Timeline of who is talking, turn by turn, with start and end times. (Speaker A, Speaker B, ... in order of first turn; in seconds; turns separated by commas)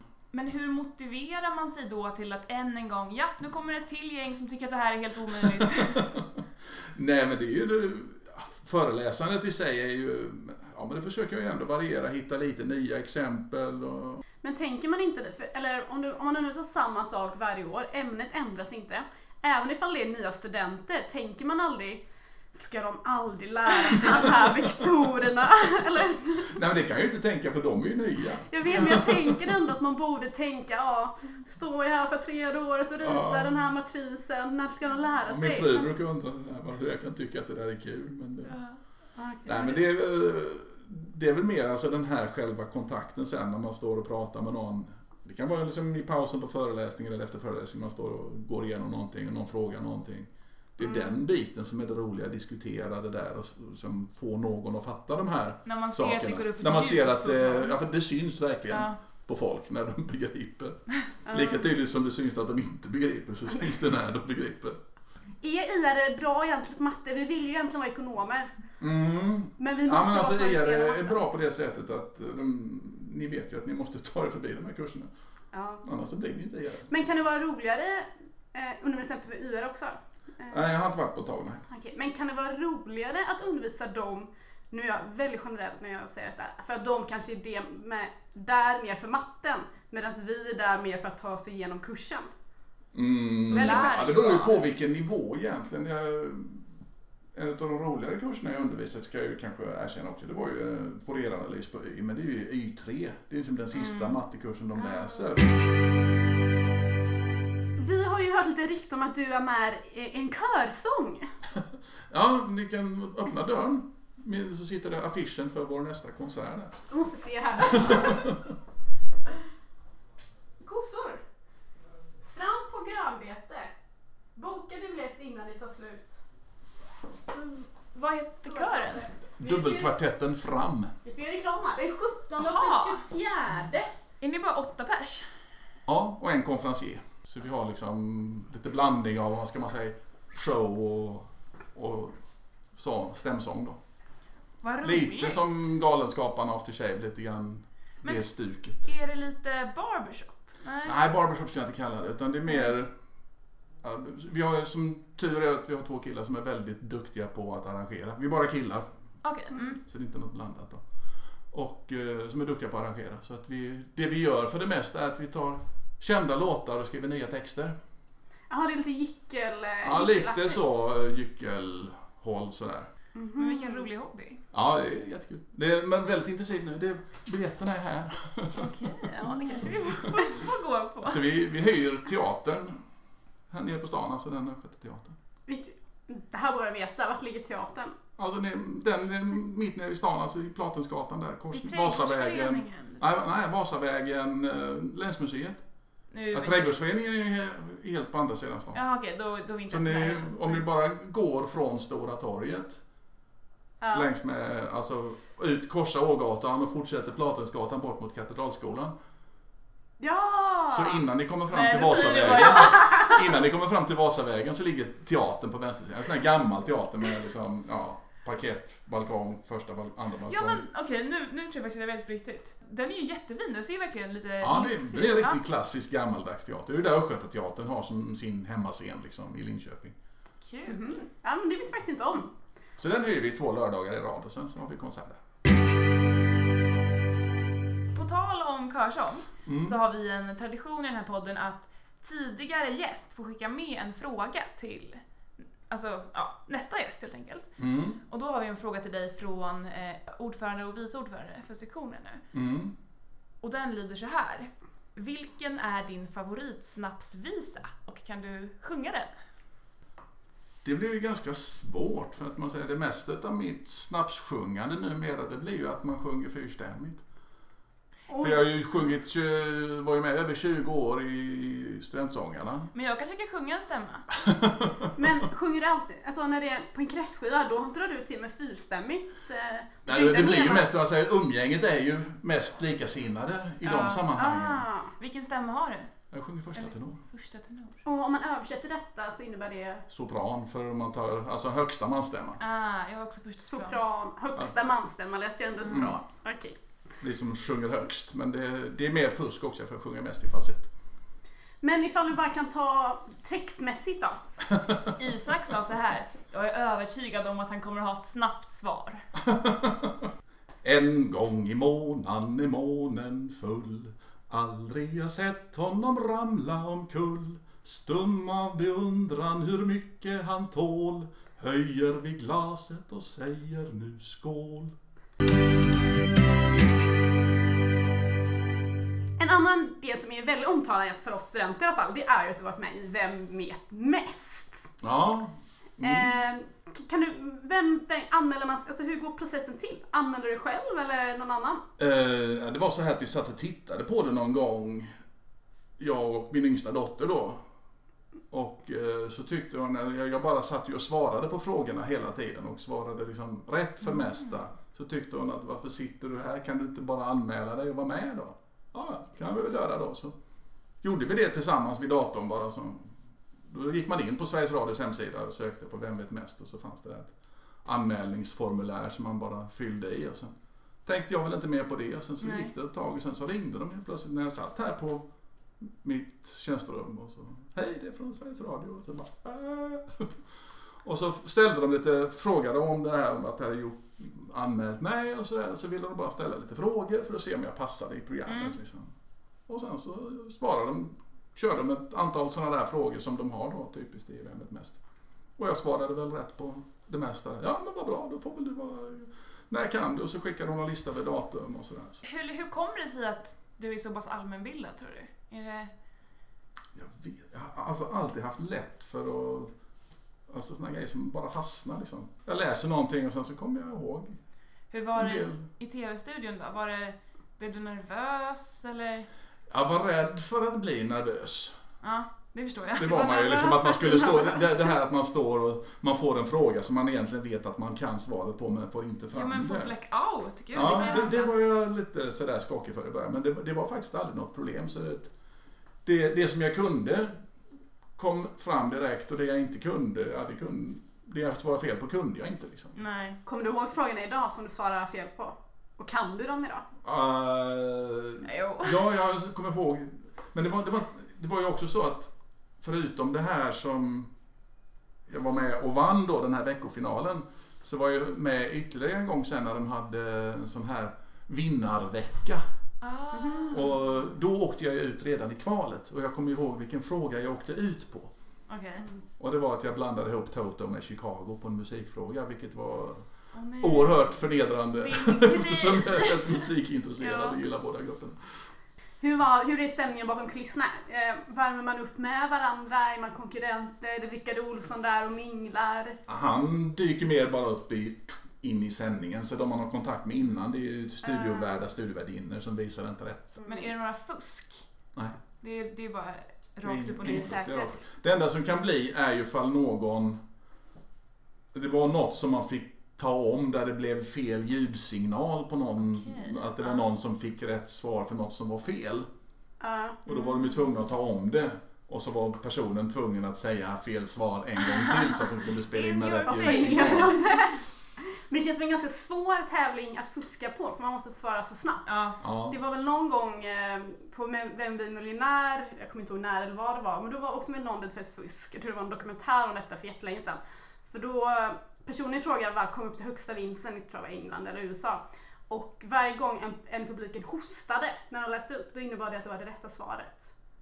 Speaker A: 0.3-6.1, Speaker B: 5.4-6.4, Speaker B: 6.9-14.2, Speaker C: 14.4-26.6, Speaker B: 26.5-29.6, Speaker C: 28.5-35.9, Speaker B: 33.0-33.7, Speaker B: 35.2-38.5, Speaker A: 38.4-38.8, Speaker C: 39.2-39.8, Speaker B: 39.5-64.8, Speaker C: 50.8-51.1, Speaker A: 55.6-57.8, Speaker A: 58.7-59.0, Speaker C: 61.3-61.6, Speaker C: 65.4-68.5, Speaker B: 68.8-75.1, Speaker C: 69.6-71.2, Speaker C: 75.5-75.8, Speaker B: 75.8-76.9, Speaker C: 76.9-80.7, Speaker B: 80.5-81.6, Speaker C: 81.7-92.3, Speaker B: 92.9-96.7, Speaker C: 93.5-94.2, Speaker A: 93.5-94.6, Speaker B: 97.3-105.5, Speaker A: 103.8-104.2, Speaker C: 107.8-111.3, Speaker B: 112.1-116.8, Speaker C: 116.9-118.3, Speaker B: 117.7-118.4, Speaker C: 120.6-121.2, Speaker C: 122.3-123.7, Speaker C: 124.3-126.2, Speaker A: 127.9-129.1, Speaker C: 128.4-129.9, Speaker B: 129.4-130.9, Speaker C: 131.0-133.9, Speaker A: 132.4-133.0, Speaker A: 134.2-135.3, Speaker B: 135.9-142.1, Speaker B: 142.7-143.8, Speaker A: 144.6-145.6, Speaker B: 144.8-148.9, Speaker A: 148.8-151.0, Speaker B: 150.8-152.9, Speaker B: 153.8-158.9, Speaker A: 159.2-159.8, Speaker B: 159.8-160.8, Speaker B: 161.5-167.7, Speaker C: 168.5-170.6, Speaker B: 169.8-172.9, Speaker C: 173.1-173.9, Speaker A: 173.4-174.4, Speaker B: 174.5-178.7, Speaker A: 178.5-181.2, Speaker B: 179.6-180.0, Speaker B: 181.0-182.8, Speaker B: 183.5-185.2, Speaker C: 185.5-187.9, Speaker B: 188.2-195.6, Speaker A: 191.5-193.1, Speaker A: 196.1-196.7, Speaker B: 196.3-198.8, Speaker A: 198.7-200.6, Speaker B: 199.7-202.8, Speaker C: 203.8-204.1, Speaker B: 203.9-208.9, Speaker C: 210.0-211.0, Speaker B: 210.7-220.6, Speaker A: 211.5-213.0, Speaker A: 220.3-225.4, Speaker B: 224.4-229.9, Speaker A: 230.4-231.0, Speaker C: 230.7-232.3, Speaker B: 232.8-235.2, Speaker A: 237.9-245.0, Speaker B: 239.4-239.8, Speaker A: 245.7-247.5, Speaker B: 247.6-248.0, Speaker A: 248.1-252.2, Speaker B: 252.3-252.7, Speaker A: 253.4-259.1, Speaker B: 260.6-267.0, Speaker C: 268.1-268.5, Speaker B: 268.2-272.7, Speaker A: 272.7-274.1, Speaker B: 274.1-274.9, Speaker C: 274.9-280.7, Speaker B: 279.9-284.6, Speaker A: 283.6-284.1, Speaker C: 284.1-284.9, Speaker A: 285.0-285.9, Speaker B: 286.1-287.0, Speaker A: 286.5-287.8, Speaker C: 287.8-289.8, Speaker B: 289.9-292.4, Speaker A: 292.4-293.8, Speaker C: 293.5-296.6, Speaker B: 295.7-296.0, Speaker B: 297.0-300.7, Speaker C: 301.6-304.2, Speaker B: 304.5-304.8, Speaker A: 304.9-309.0, Speaker B: 309.1-310.1, Speaker B: 310.6-324.7, Speaker C: 329.2-334.7, Speaker B: 334.8-336.1, Speaker C: 335.8-341.6, Speaker B: 341.8-344.9, Speaker B: 345.8-347.4, Speaker B: 348.3-360.1, Speaker B: 360.8-367.1, Speaker B: 367.6-370.3, Speaker B: 370.8-375.0, Speaker A: 372.2-372.5, Speaker B: 375.6-380.2, Speaker B: 380.8-388.9, Speaker A: 388.3-388.6, Speaker B: 389.5-394.8, Speaker B: 395.4-402.0, Speaker A: 402.0-405.7, Speaker B: 406.7-409.5, Speaker B: 410.3-414.2, Speaker A: 414.7-419.1, Speaker B: 414.9-415.5, Speaker B: 419.5-421.6, Speaker A: 421.8-423.1, Speaker B: 422.8-429.7, Speaker C: 422.8-424.6, Speaker A: 429.1-431.3, Speaker B: 430.5-435.1, Speaker C: 430.8-431.0, Speaker B: 435.8-437.1, Speaker B: 437.9-442.7, Speaker A: 442.7-443.2, Speaker C: 443.2-446.6, Speaker B: 446.8-454.1, Speaker A: 448.2-448.8, Speaker B: 455.1-462.4, Speaker A: 462.8-463.7, Speaker C: 463.1-463.6, Speaker B: 463.5-468.1, Speaker A: 468.5-468.9, Speaker B: 469.2-473.0, Speaker A: 473.3-474.1, Speaker B: 473.6-478.2, Speaker A: 474.8-476.5, Speaker A: 477.0-477.4, Speaker C: 479.0-486.0, Speaker B: 486.1-493.4, Speaker A: 493.4-494.6, Speaker A: 495.4-497.5, Speaker B: 496.6-500.2, Speaker C: 497.0-497.7, Speaker B: 501.5-509.1, Speaker A: 505.8-506.8, Speaker C: 509.6-510.0, Speaker B: 510.1-517.2, Speaker A: 510.1-510.5, Speaker A: 515.7-517.2, Speaker C: 516.2-521.9, Speaker A: 521.9-522.2, Speaker B: 522.2-522.6, Speaker C: 522.5-540.3